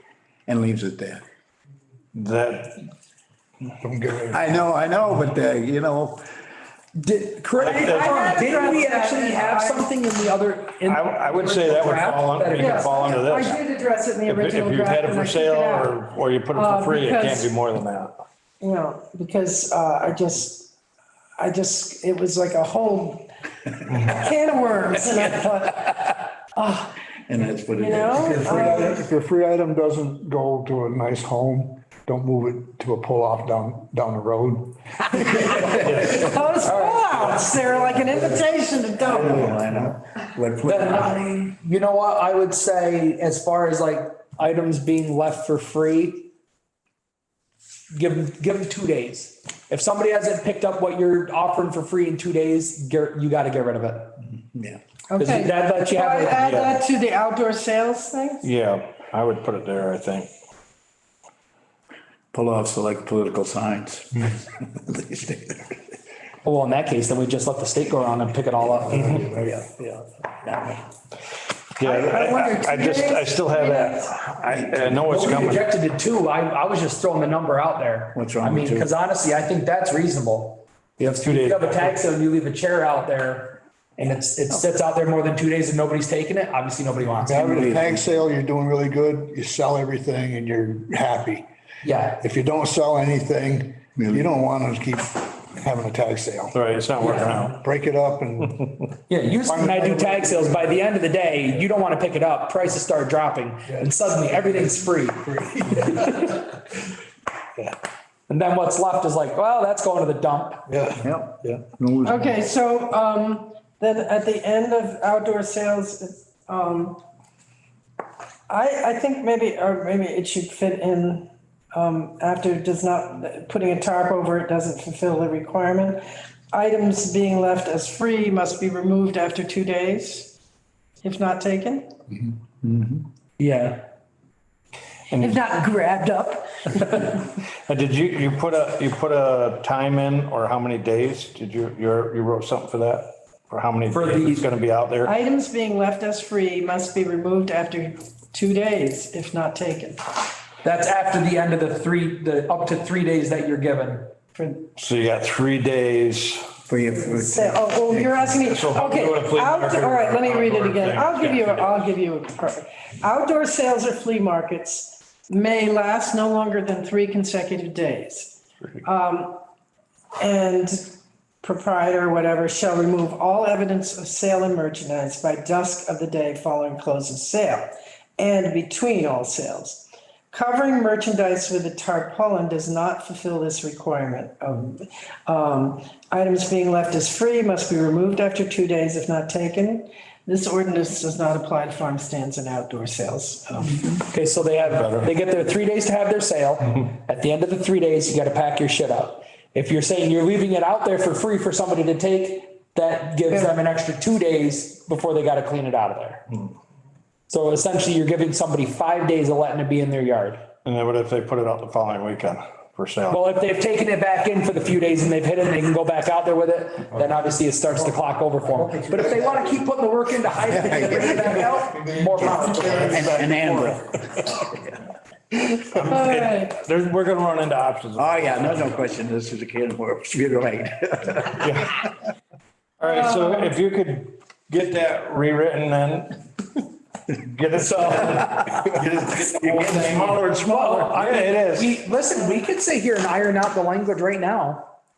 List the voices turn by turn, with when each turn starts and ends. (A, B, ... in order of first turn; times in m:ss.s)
0:00.5-0:01.2 A
0:02.1-0:02.8 B
0:03.8-0:06.1 C
0:04.3-0:06.2 A
0:07.0-0:13.1 D
0:07.6-0:08.6 B
0:07.6-0:10.0 E
0:10.8-0:13.6 B
0:12.6-0:16.0 E
0:14.3-0:18.1 B
0:16.5-0:17.5 E
0:18.6-0:20.8 E
0:21.4-0:23.3 E
0:23.9-0:26.9 E
0:27.3-0:28.6 A
0:27.6-0:35.1 C
0:27.7-0:29.0 E
0:35.4-0:36.1 D
0:35.6-0:39.6 E
0:35.8-0:36.4 B
0:36.6-0:37.4 D
0:37.2-0:37.4 B
0:39.0-0:41.0 A
0:39.1-0:41.1 C
0:40.6-0:46.3 D
0:47.9-0:54.2 D
0:55.1-0:58.5 E
0:55.1-0:56.5 D
0:56.4-0:56.8 B
0:58.4-1:00.3 B
1:02.3-1:04.2 C
1:05.0-1:05.4 C
1:06.4-1:09.3 D
1:09.2-1:09.8 A
1:09.4-1:09.9 C
1:11.8-1:15.7 B
1:11.8-1:14.2 E
1:15.0-1:27.7 D
1:18.2-1:18.9 C
1:21.1-1:22.0 B
1:27.3-1:31.5 C
1:27.4-1:28.0 A
1:31.8-1:32.2 D
1:32.2-1:36.5 C
1:34.0-1:34.3 A
1:36.5-1:37.6 B
1:37.0-1:37.5 D
1:37.6-1:38.5 C
1:39.1-1:46.5 D
1:39.5-1:40.5 C
1:48.3-1:50.6 D
1:50.7-1:51.0 B
1:51.0-1:52.2 A
1:52.0-1:57.0 E
1:58.5-2:06.0 E
2:06.5-2:10.4 E
2:11.0-2:11.9 E
2:13.4-2:13.9 D
2:15.1-2:15.4 B
2:15.1-2:17.1 E
2:17.7-2:25.1 B
2:23.9-2:24.5 D
2:25.0-2:30.0 E
2:30.6-2:34.1 D
2:34.4-2:34.7 E
2:34.8-2:36.4 B
2:36.7-2:38.2 A
2:37.0-2:49.4 E
2:38.4-2:41.8 B
2:50.2-3:13.8 E
3:14.0-3:26.2 D
3:14.7-3:15.1 B
3:27.3-3:30.5 D
3:30.6-3:33.2 B
3:33.1-3:43.2 D
3:40.5-3:41.1 A
3:40.6-3:43.8 C
3:42.7-3:43.7 A
3:42.9-3:43.8 B
3:45.5-3:48.6 B
3:45.9-3:46.6 E
3:48.0-3:51.1 C
3:48.5-3:51.2 A
3:51.3-3:51.8 B
3:52.8-3:56.2 B
3:52.8-3:53.5 E
3:57.1-4:01.7 B
3:57.6-4:04.7 D